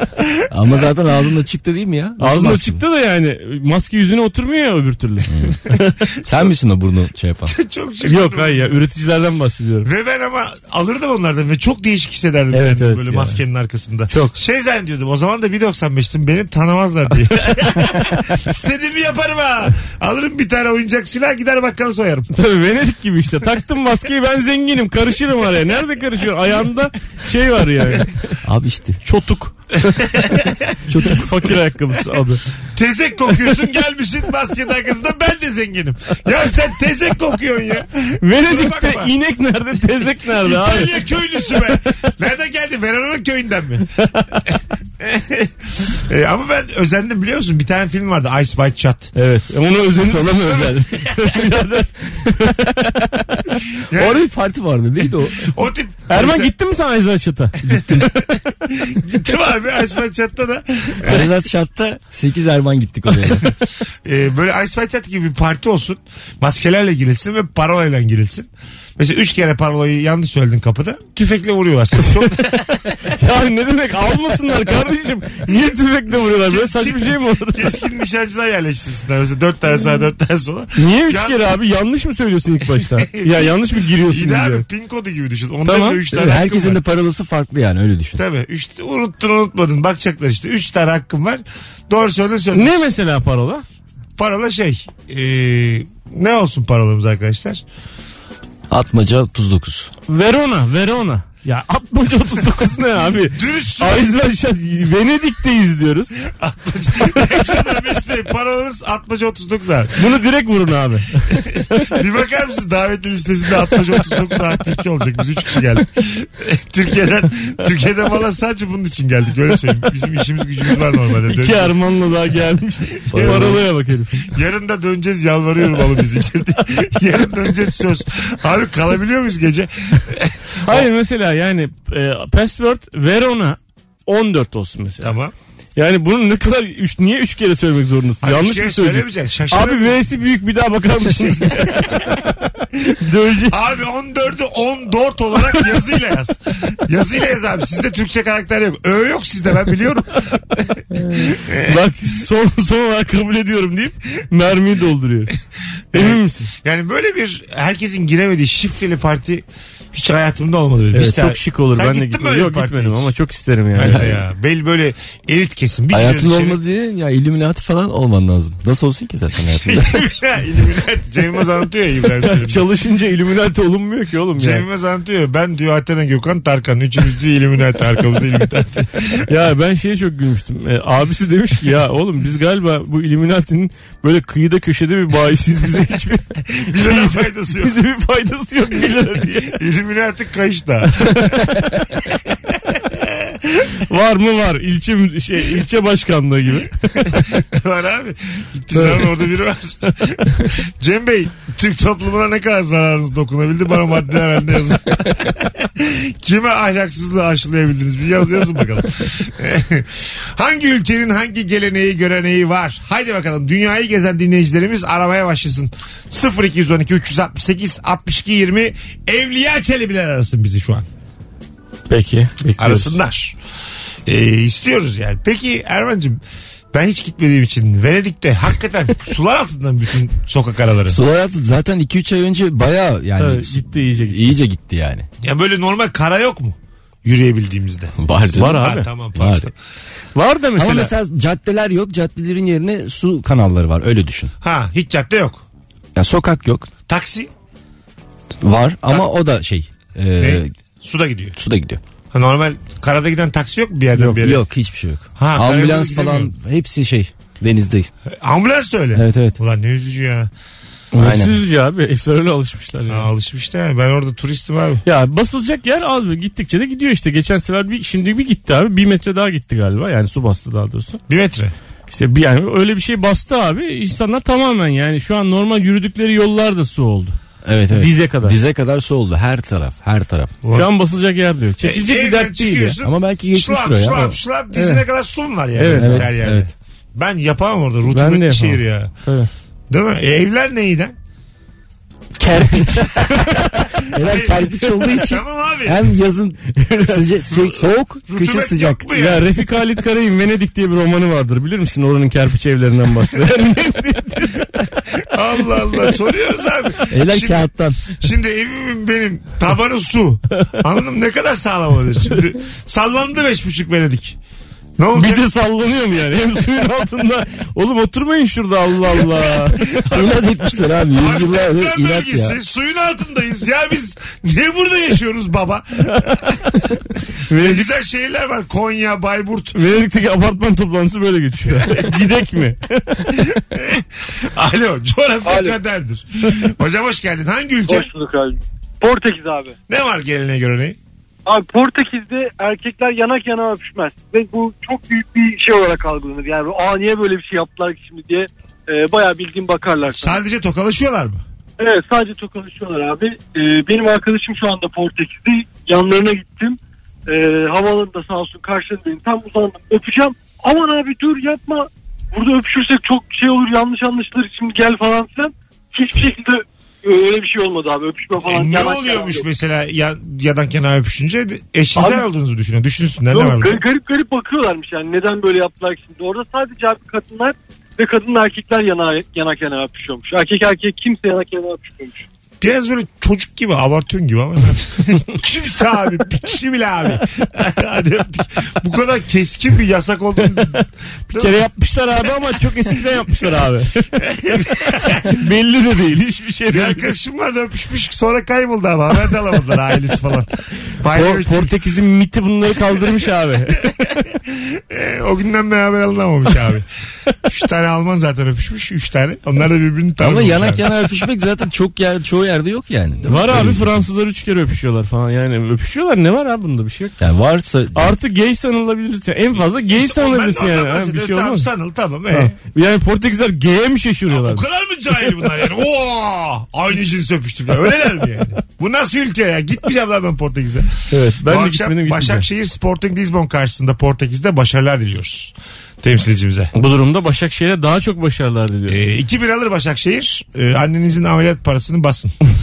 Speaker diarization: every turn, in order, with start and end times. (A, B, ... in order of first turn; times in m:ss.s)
0:00.5-0:02.8 A
0:02.2-0:06.0 B
0:05.3-0:05.6 A
0:06.2-0:07.5 A
0:07.4-0:08.8 C
0:08.0-0:09.9 B
0:09.8-0:22.3 C
0:12.5-0:13.4 B
0:14.1-0:14.4 B
0:22.3-0:28.3 B
0:28.4-0:29.0 A
0:29.0-0:29.9 B
0:30.1-0:30.6 C
0:30.9-0:31.3 A
0:31.0-0:32.4 B
0:32.7-0:39.1 C
0:38.2-0:41.8 B
0:40.4-0:49.1 C
0:49.1-0:53.3 B
0:50.1-0:50.9 A
0:53.9-0:54.2 C
0:53.9-0:55.5 A
0:55.5-0:56.5 C
0:56.1-0:58.2 B
0:57.7-0:58.0 A
0:57.7-0:58.1 C
0:58.6-1:01.3 C
1:01.0-1:03.5 A
1:04.0-1:13.1 C
1:13.1-1:17.8 B
1:16.4-1:21.4 C
1:20.7-1:24.6 B
1:23.0-1:26.8 C
1:25.6-1:26.0 B
1:26.1-1:28.2 A
1:28.2-1:32.8 C
1:32.5-1:33.6 B
1:34.2-1:37.6 C
1:38.7-1:39.9 A
1:40.1-1:46.1 B
1:43.3-1:44.0 C
1:46.3-1:50.0 C
1:50.0-1:51.9 B
1:51.4-2:01.8 C
2:01.3-2:04.4 B
2:03.1-2:03.7 C
2:03.1-2:03.6 A
2:04.3-2:10.9 C
2:10.6-2:15.1 B
2:15.0-2:15.3 C
2:15.8-2:23.6 B
2:18.2-2:20.0 C
2:21.4-2:21.9 C
2:23.5-2:31.7 C
2:31.0-2:35.3 B
2:35.9-2:43.1 C
2:35.9-2:36.5 B
2:40.9-2:44.1 B
2:43.7-2:46.6 C
2:43.8-2:44.2 A
2:45.9-2:50.0 A
2:49.6-2:52.6 C
2:52.2-2:54.6 B
2:54.4-2:59.2 C
2:59.2-3:09.6 B
3:06.7-3:07.7 C
3:09.5-3:11.7 C
3:11.0-3:11.4 B
3:12.9-3:13.7 C
3:13.9-3:17.2 B
3:17.1-3:40.8 C
3:18.8-3:19.0 B
3:41.9-3:43.0 B
3:42.6-3:43.4 C
3:44.0-3:46.2 C
3:46.7-3:51.0 C
3:50.8-3:55.1 A
3:53.2-3:54.3 B
3:55.2-3:57.9 C
3:58.0-3:59.5 A
3:58.4-3:58.9 B
3:58.6-3:59.5 C
4:00.1-4:00.9 B
4:00.6-4:04.3 A
4:04.4-4:05.4 C
4:05.9-4:06.7 A
4:06.9-4:07.3 C
4:08.4-4:10.5 A
4:10.2-4:11.4 C
4:11.4-4:11.8 A
4:12.1-4:14.4 C
4:13.9-4:17.9 A
4:15.2-4:16.3 C
4:18.2-4:20.3 C
4:18.9-4:19.4 A
4:20.9-4:23.1 B
4:21.0-4:21.4 A
4:22.9-4:24.8 C
4:24.8-4:31.0 B
4:31.1-4:31.5 C
4:31.9-4:37.2 B
4:37.4-4:40.3 A
4:37.7-4:38.4 B
4:40.5-4:42.8 B
4:41.6-4:48.9 C
4:42.8-4:44.2 A
4:44.5-4:44.8 B
4:45.5-4:46.1 B
4:45.7-4:46.5 A
4:47.9-4:49.3 B
4:49.7-4:50.9 C
4:52.2-4:53.1 A
4:52.5-4:53.6 B
4:53.9-4:58.9 A
4:54.0-4:54.3 C
4:55.0-4:55.9 C
4:56.6-4:57.0 B
4:57.3-4:59.3 C
4:58.9-5:04.6 B
5:05.1-5:14.2 C
5:06.9-5:07.8 A
5:14.8-5:15.2 C
5:14.9-5:19.8 B
5:19.9-5:20.2 C
5:19.9-5:22.4 A
5:21.0-5:29.6 C
5:27.3-5:27.7 B
5:29.5-5:33.2 B
5:31.6-5:31.9 C
5:33.1-5:37.9 C
5:35.2-5:35.6 D
5:37.6-5:39.5 D
5:39.7-5:40.8 C
5:41.2-5:50.2 D
5:49.9-5:51.2 C
5:51.6-6:09.2 D
6:08.2-6:13.6 C
6:11.8-6:12.0 D
6:13.1-6:22.0 D
6:22.4-6:31.4 C
6:30.2-6:30.6 B
6:31.1-6:36.9 B
6:34.1-6:35.1 C
6:36.5-6:41.5 C
6:40.9-6:43.7 B
6:44.1-6:46.6 C
6:47.2-6:50.6 C
6:50.0-6:53.8 A
6:53.0-6:56.9 B
6:57.0-6:58.0 A
6:57.7-7:01.5 B
6:59.7-7:02.3 C
7:02.1-7:04.4 B
7:04.1-7:16.5 C
7:10.9-7:12.3 B
7:16.5-7:18.8 B
7:18.7-7:22.2 C